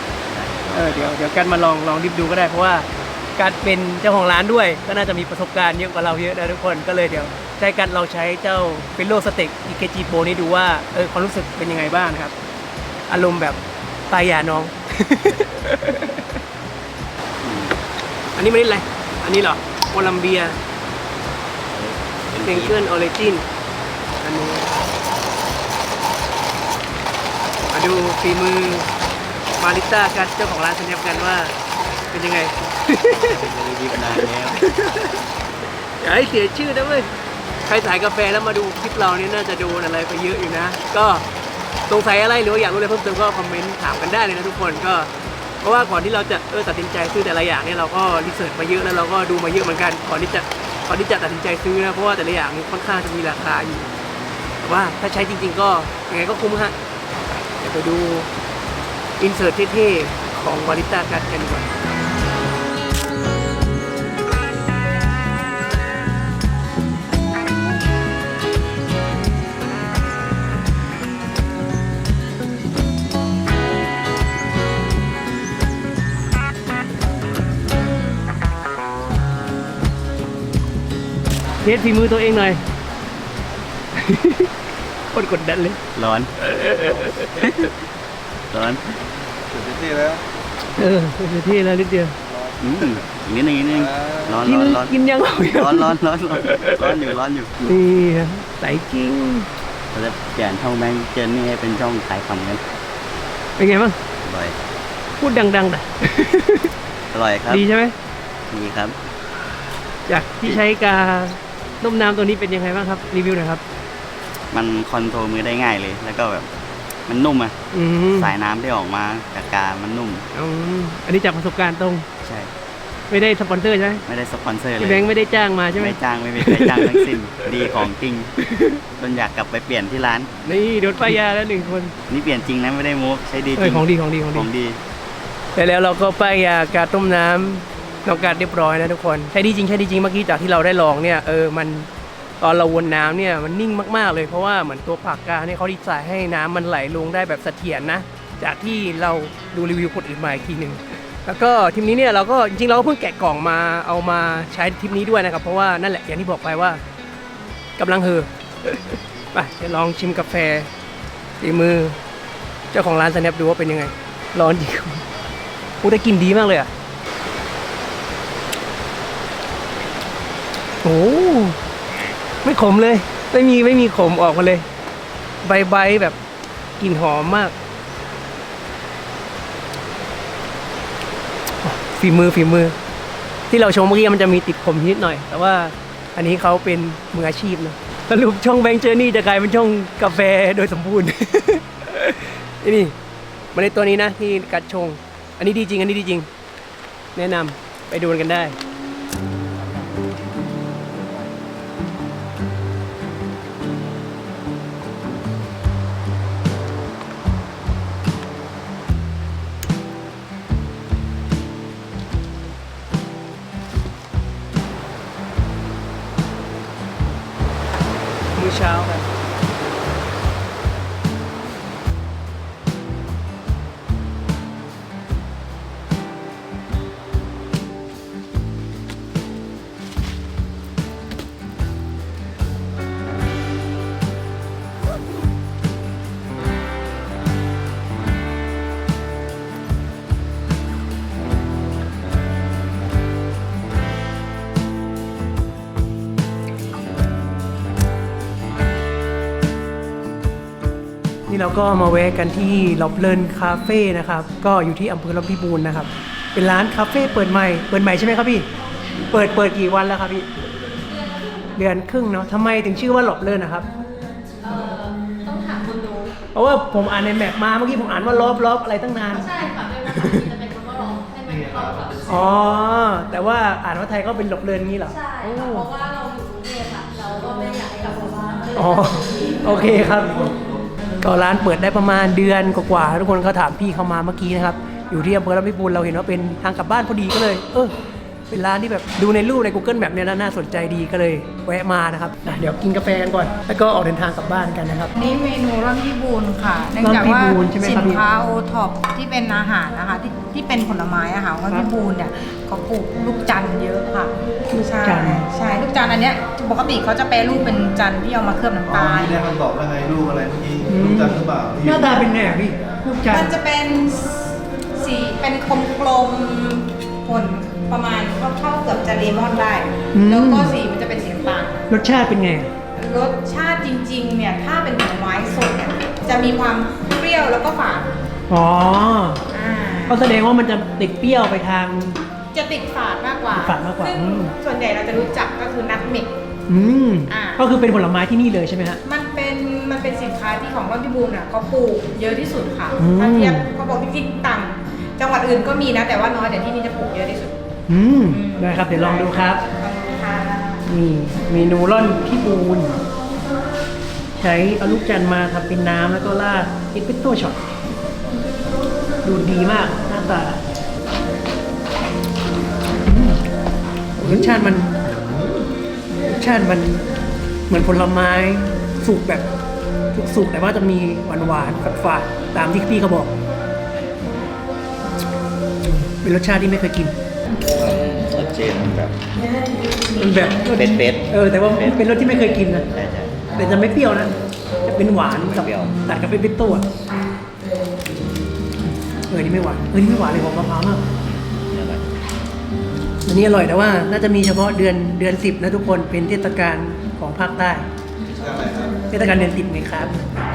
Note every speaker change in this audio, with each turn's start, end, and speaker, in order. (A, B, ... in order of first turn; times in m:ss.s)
0:00.2-0:01.1 A
0:00.7-0:12.3 B
0:13.1-0:13.6 B
0:14.1-0:16.3 B
0:17.4-0:17.8 A
0:18.4-0:20.6 B
0:21.7-0:22.8 A
0:22.4-0:23.4 B
0:24.2-0:24.9 B
0:27.7-0:28.9 B
0:29.6-0:31.5 B
0:32.1-0:33.4 B
0:33.1-0:34.6 A
0:34.1-0:35.2 B
0:36.0-0:37.1 B
0:37.7-0:41.2 B
0:41.9-0:45.1 B
0:45.6-0:53.9 B
0:54.6-0:56.7 B
0:57.6-0:58.3 B
0:59.2-1:01.7 B
1:21.6-1:22.6 B
1:24.0-1:24.5 B
1:25.1-1:25.8 B
1:25.9-1:26.3 A
1:26.4-1:27.7 B
1:27.4-1:27.7 A
1:28.5-1:28.8 A
1:29.5-1:30.2 C
1:30.8-1:32.2 B
1:32.3-1:32.6 C
1:32.6-1:34.9 A
1:33.8-1:34.4 C
1:34.4-1:37.0 B
1:35.5-1:37.5 A
1:37.6-1:39.5 B
1:39.9-1:42.6 A
1:43.6-1:44.0 B
1:44.2-1:44.6 A
1:45.2-1:46.7 B
1:47.1-1:47.6 A
1:47.5-1:47.9 B
1:48.5-1:49.0 A
1:50.1-1:53.6 B
1:54.5-1:56.5 A
1:57.1-1:57.5 A
1:57.7-1:58.3 B
1:58.1-2:00.2 A
2:00.3-2:02.0 B
2:02.2-2:02.5 A
2:03.1-2:04.0 B
2:04.1-2:05.1 A
2:04.8-2:07.8 B
2:05.8-2:08.3 A
2:08.4-2:08.8 B
2:09.0-2:10.3 A
2:10.4-2:11.9 B
2:12.1-2:14.8 A
2:13.6-2:14.5 B
2:15.6-2:21.9 B
2:22.4-2:36.8 B
2:37.8-2:40.7 B
2:41.4-2:42.0 B
2:42.7-2:45.0 B
2:45.8-2:46.7 B
2:50.8-2:51.6 B
2:52.4-2:54.6 B
2:55.4-2:56.2 B
2:56.8-2:57.5 B
3:01.6-3:02.7 B
3:03.5-3:12.9 B
3:13.5-3:16.3 B
3:17.1-3:18.6 B
3:38.3-3:39.1 B
4:11.3-4:18.5 B
4:18.5-4:19.5 D
4:19.1-4:20.3 B
4:20.7-4:21.8 D
4:21.6-4:23.7 B
4:24.4-4:26.2 D
4:26.3-4:29.3 B
4:29.1-4:32.5 D
4:29.9-4:30.2 B
4:31.3-4:32.2 C
4:32.0-4:35.7 B
4:34.8-4:40.2 D
4:38.5-4:40.3 B
4:41.0-4:47.7 B
4:48.3-4:54.9 B
4:55.0-5:09.2 E
4:56.8-4:58.0 B
5:04.5-5:05.2 B
5:08.7-5:12.0 C
5:10.7-5:13.3 B
5:13.1-5:21.6 E
5:19.9-5:20.6 B
5:21.7-5:22.5 B
5:22.8-5:28.0 E
5:28.3-5:29.2 B
5:29.3-5:30.0 E
5:29.9-5:32.0 B
5:32.3-5:36.1 E
5:33.3-5:34.3 B
5:36.5-5:38.8 B
5:37.1-5:37.4 E
5:38.8-5:47.4 E
5:42.8-5:43.5 B
5:47.7-5:49.4 B
5:48.1-5:50.6 E
5:50.6-5:52.8 B
5:54.2-5:57.6 B
5:59.0-6:00.4 B
6:02.8-6:03.2 B
6:04.0-6:04.8 B
6:06.0-6:06.8 B
6:07.5-6:09.3 B
6:09.9-6:13.1 B
6:15.7-6:17.0 B
6:17.5-6:19.0 A
6:20.0-6:22.6 B
6:20.3-6:21.8 A
6:22.7-6:23.2 A
6:23.3-6:24.1 B
6:24.6-6:26.6 B
6:25.1-6:25.8 A
6:29.1-6:30.8 B
6:31.3-6:31.9 A
6:33.0-6:37.6 B
6:38.1-6:38.8 C
6:38.9-6:40.0 B